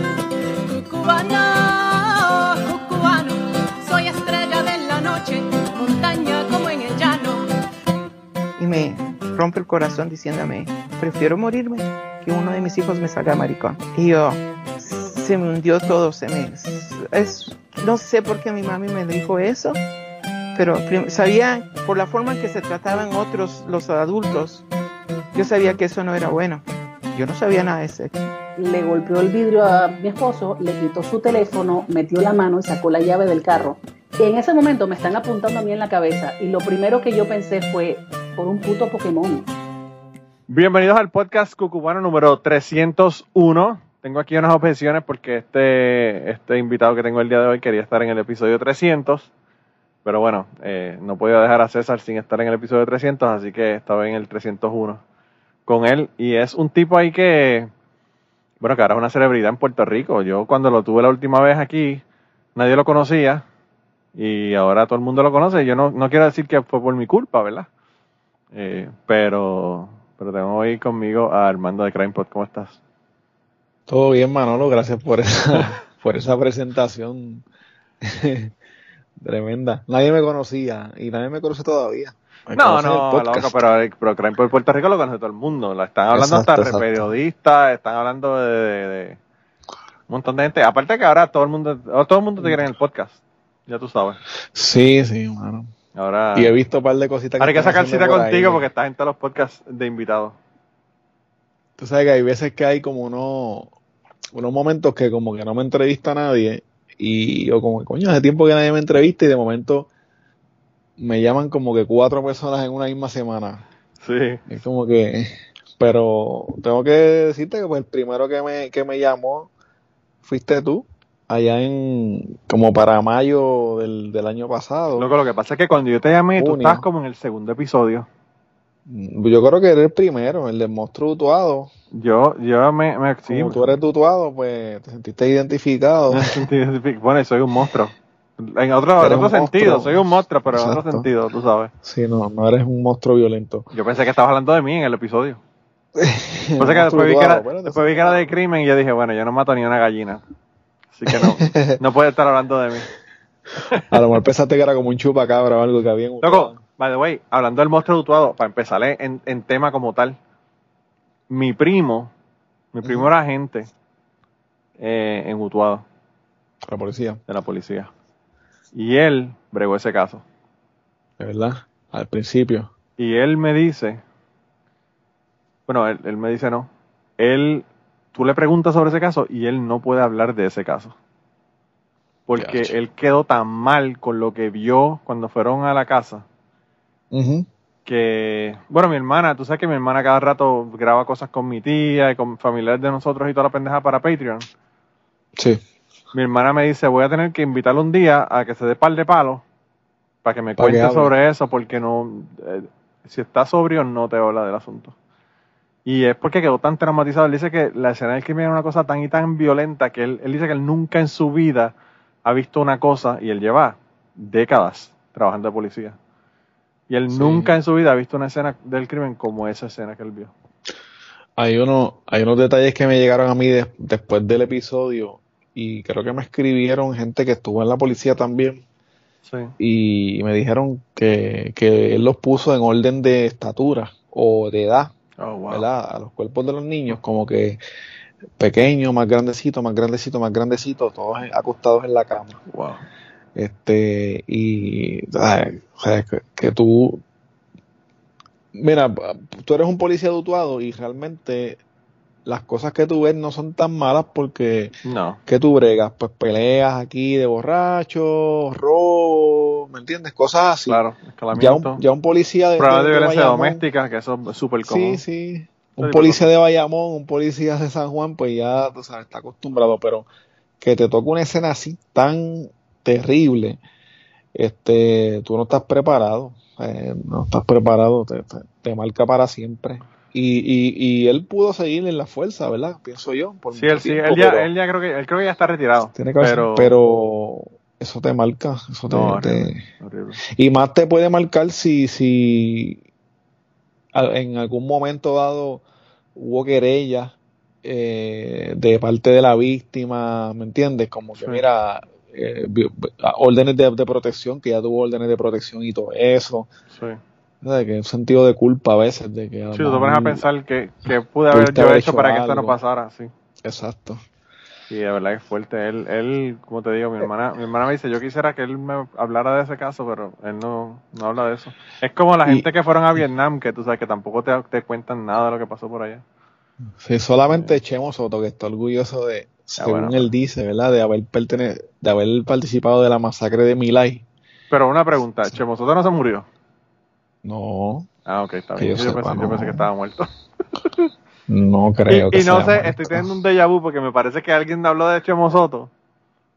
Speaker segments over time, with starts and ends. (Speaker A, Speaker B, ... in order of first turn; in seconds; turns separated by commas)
Speaker A: 0.6-7.5, Speaker B: 8.6-19.8, Speaker B: 20.6-24.6, Speaker B: 25.3-28.2, Speaker A: 28.6-39.5, Speaker C: 40.5-49.3, Speaker C: 50.0-55.0, Speaker C: 55.7-57.7, Speaker C: 58.6-62.0, Speaker C: 62.5-63.5, Speaker C: 64.2-67.7, Speaker C: 68.5-72.8, Speaker D: 73.9-77.5, Speaker D: 78.0-78.5, Speaker D: 79.2-83.5, Speaker C: 82.5-89.2, Speaker D: 86.1-87.0, Speaker C: 90.1-94.2, Speaker D: 94.5-95.7, Speaker C: 96.0-96.5, Speaker D: 96.3-98.6, Speaker C: 97.4-100.4, Speaker D: 101.8-103.7, Speaker D: 104.3-109.9, Speaker D: 111.0-113.7, Speaker C: 114.0-114.4, Speaker D: 114.5-119.5, Speaker D: 120.2-125.1, Speaker C: 125.0-128.1, Speaker D: 126.4-126.8, Speaker D: 128.9-131.7, Speaker C: 131.9-133.7, Speaker D: 133.3-136.3, Speaker C: 136.1-141.7, Speaker D: 139.0-140.0, Speaker D: 140.5-141.1, Speaker D: 141.8-143.7, Speaker C: 143.7-145.4, Speaker D: 146.0-148.2, Speaker C: 146.6-150.2, Speaker C: 150.9-152.9, Speaker D: 151.1-151.8, Speaker D: 153.9-156.6, Speaker C: 156.2-160.2, Speaker C: 161.3-162.1, Speaker C: 162.7-163.7, Speaker C: 164.8-165.8, Speaker D: 166.7-167.2, Speaker C: 167.3-167.9, Speaker C: 168.7-170.2, Speaker D: 171.2-172.7, Speaker C: 173.0-174.0, Speaker C: 175.7-180.9, Speaker C: 182.3-186.2, Speaker D: 182.4-182.7, Speaker D: 187.1-187.5, Speaker C: 187.8-194.5, Speaker D: 195.4-195.6, Speaker C: 196.1-199.4, Speaker C: 200.2-204.9, Speaker D: 200.6-201.1, Speaker C: 205.8-216.0, Speaker C: 216.9-220.3, Speaker D: 217.1-217.5, Speaker D: 221.4-228.6, Speaker C: 229.3-229.5, Speaker D: 229.6-234.9, Speaker C: 235.2-235.7, Speaker D: 235.5-237.6, Speaker D: 238.4-242.4, Speaker C: 242.5-242.8, Speaker D: 243.3-247.0, Speaker D: 248.5-251.6, Speaker D: 252.2-254.7, Speaker C: 254.8-255.2, Speaker D: 255.3-260.8, Speaker C: 260.7-261.8, Speaker D: 261.3-263.6, Speaker C: 262.6-265.0, Speaker D: 264.7-270.1, Speaker C: 265.8-266.3, Speaker D: 270.6-273.6, Speaker D: 274.4-284.5, Speaker C: 283.5-286.7, Speaker D: 285.9-289.6, Speaker C: 288.9-290.2, Speaker D: 290.4-292.8, Speaker D: 293.9-295.6, Speaker D: 296.1-306.5, Speaker C: 301.2-301.4, Speaker C: 306.7-307.0, Speaker D: 307.4-310.2, Speaker C: 309.5-313.1, Speaker D: 311.3-312.6, Speaker D: 313.4-314.0, Speaker C: 314.7-326.0, Speaker D: 326.8-334.1, Speaker C: 327.3-327.6, Speaker C: 329.6-330.1, Speaker C: 334.5-336.3, Speaker D: 337.2-337.9, Speaker C: 338.1-340.9, Speaker D: 338.6-339.6, Speaker D: 341.3-343.1, Speaker C: 341.9-345.7